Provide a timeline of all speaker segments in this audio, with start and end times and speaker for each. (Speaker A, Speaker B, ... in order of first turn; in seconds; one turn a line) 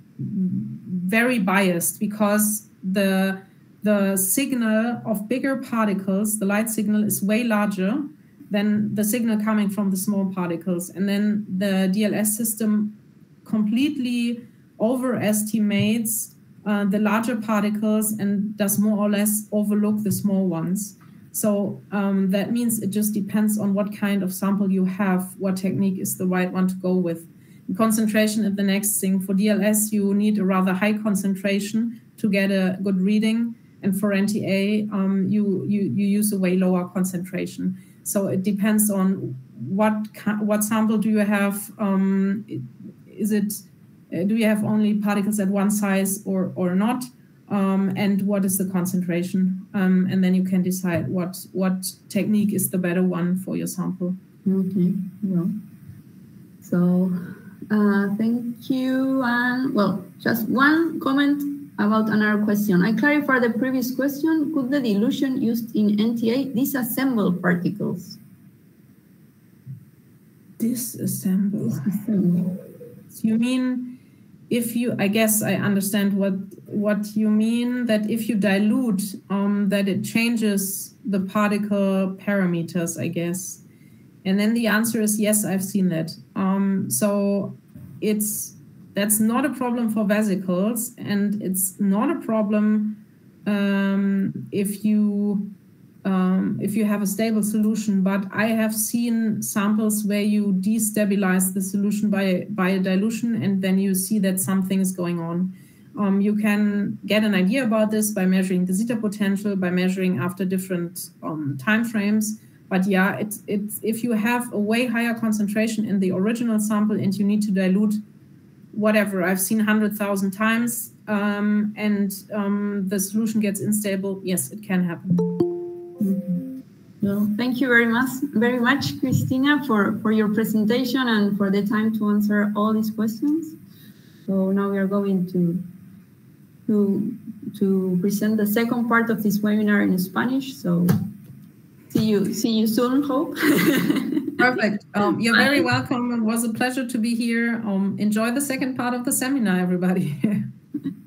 Speaker A: 0.2-54.2
Speaker B: 54.4-55.5
Speaker B: 56.6-68.2
Speaker A: 70.6-72.0
Speaker B: 71.8-72.6
Speaker A: 73.1-74.0
Speaker A: 74.5-83.6
Speaker A: 84.2-118.0
Speaker A: 118.7-125.3
Speaker B: 126.0-126.5
Speaker B: 127.0-133.6
Speaker B: 134.3-135.7
Speaker B: 136.7-141.0
Speaker B: 141.9-144.4
Speaker A: 144.4-150.5